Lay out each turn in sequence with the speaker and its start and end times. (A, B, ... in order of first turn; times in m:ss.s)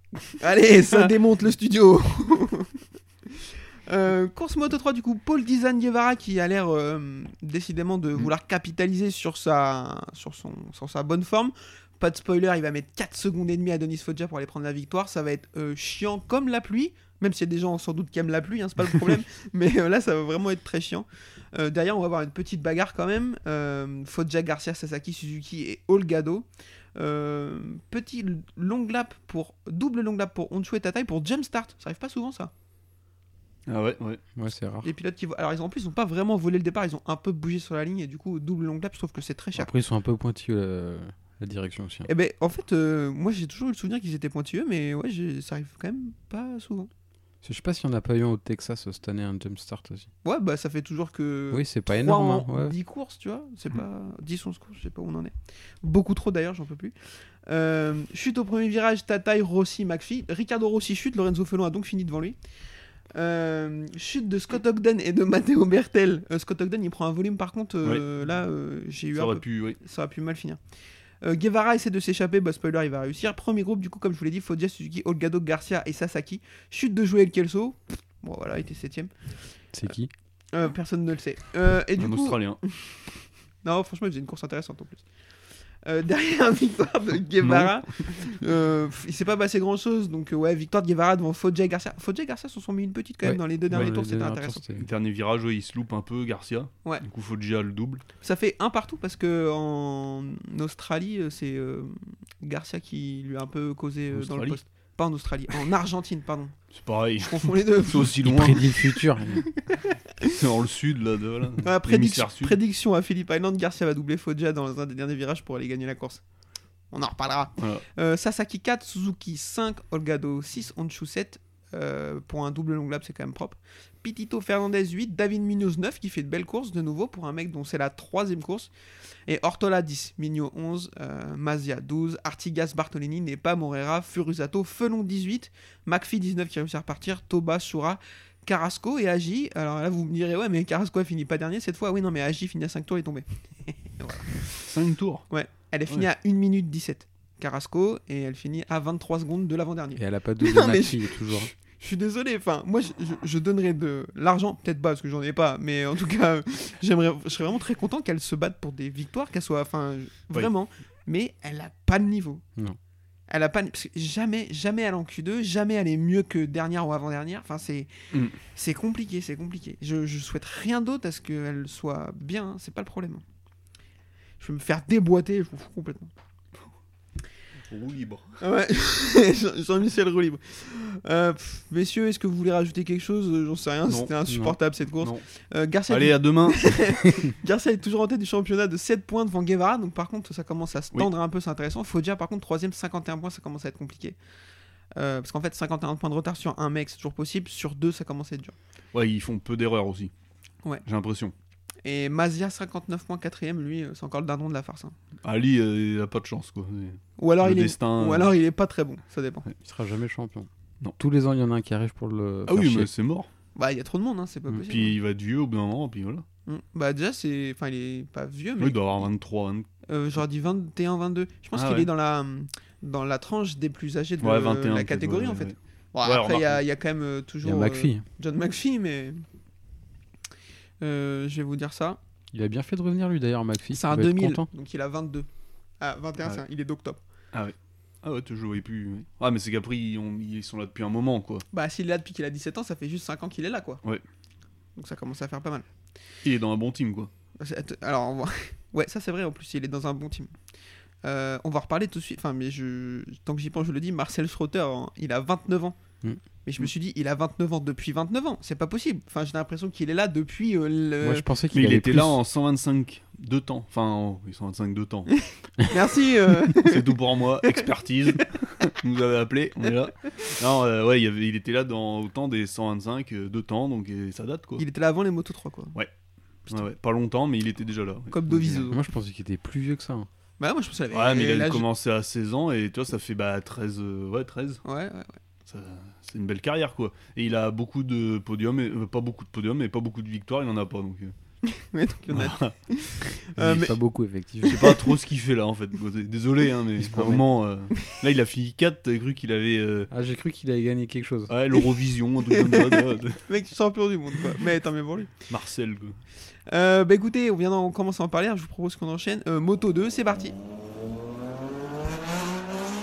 0:00.3-0:32.5 A
0:33.7-0:34.2 B
0:34.4-0:34.9 C
0:34.8-0:39.7 A
0:39.6-0:42.1 C
0:42.1-0:46.9 A
0:47.4-0:50.1 C
0:50.2-0:56.9 A
0:51.5-0:52.8 C
0:57.5-1:02.4 A
1:03.1-1:10.6 A
1:09.1-1:09.8 B
1:11.2-1:19.1 A
1:19.7-1:20.1 C
1:20.5-1:23.1 A
1:22.0-1:22.6 B
1:23.6-1:25.0 A
1:25.8-1:34.6 A
1:27.4-1:27.7 B
1:33.2-1:34.9 C
1:34.8-1:38.0 B
1:38.2-1:46.6 A
1:44.1-1:44.6 B
1:46.7-1:48.8 B
1:47.2-1:48.6 A
1:48.2-1:49.5 C
1:49.4-1:50.4 A
1:50.3-1:52.6 B
1:51.6-1:56.2 A
1:56.9-2:08.7 A
1:57.6-1:57.8 B
2:09.3-2:24.7 A
2:24.6-2:25.3 B
2:25.3-2:42.4 A
2:30.0-2:31.5 C
2:43.3-2:47.9 A
2:48.5-2:53.2 A
2:54.4-2:56.1 A
2:57.7-2:58.4 B
2:58.4-3:14.2 A
3:04.3-3:04.6 C
3:05.9-3:07.0 B
3:15.0-3:18.6 A
3:18.9-3:20.1 B
3:20.8-3:21.3 B
3:21.8-3:25.0 A
3:25.2-3:28.3 B
3:27.2-3:29.5 A
3:29.6-3:32.9 C
3:32.5-3:33.3 B
3:33.6-3:35.0 A
3:34.6-3:36.2 B
3:36.5-3:39.1 A
3:38.6-3:39.7 B
3:39.9-3:49.2 A
3:41.6-3:41.9 B
3:44.2-3:46.6 B
3:47.4-3:48.0 C
3:50.8-3:52.0 A
3:52.3-3:54.5 C
3:53.7-3:55.3 A
3:55.8-3:57.0 A
3:57.3-4:01.4 B
4:01.5-4:03.8 A
4:04.8-4:05.6 A
4:06.2-4:07.1 B
4:07.4-4:10.3 A
4:11.0-4:15.8 A
4:16.4-4:21.3 A
4:21.0-4:22.2 C
4:21.5-4:25.1 B
4:25.1-4:28.2 A
4:26.5-4:34.6 B
4:34.6-4:35.8 A
4:36.5-4:38.7 B
4:38.1-4:38.8 A
4:38.7-4:40.1 C
4:40.4-4:41.7 A
4:40.9-4:44.6 B
4:44.6-4:45.2 A
4:45.5-4:51.1 B
4:51.4-4:53.7 A
4:52.1-4:52.5 B
4:53.4-4:54.8 C
4:54.4-4:59.9 B
4:56.8-4:57.2 C
4:59.9-5:01.3 C
5:01.3-5:03.2 B
5:02.3-5:05.1 A
5:05.3-5:06.0 B
5:06.5-5:10.4 A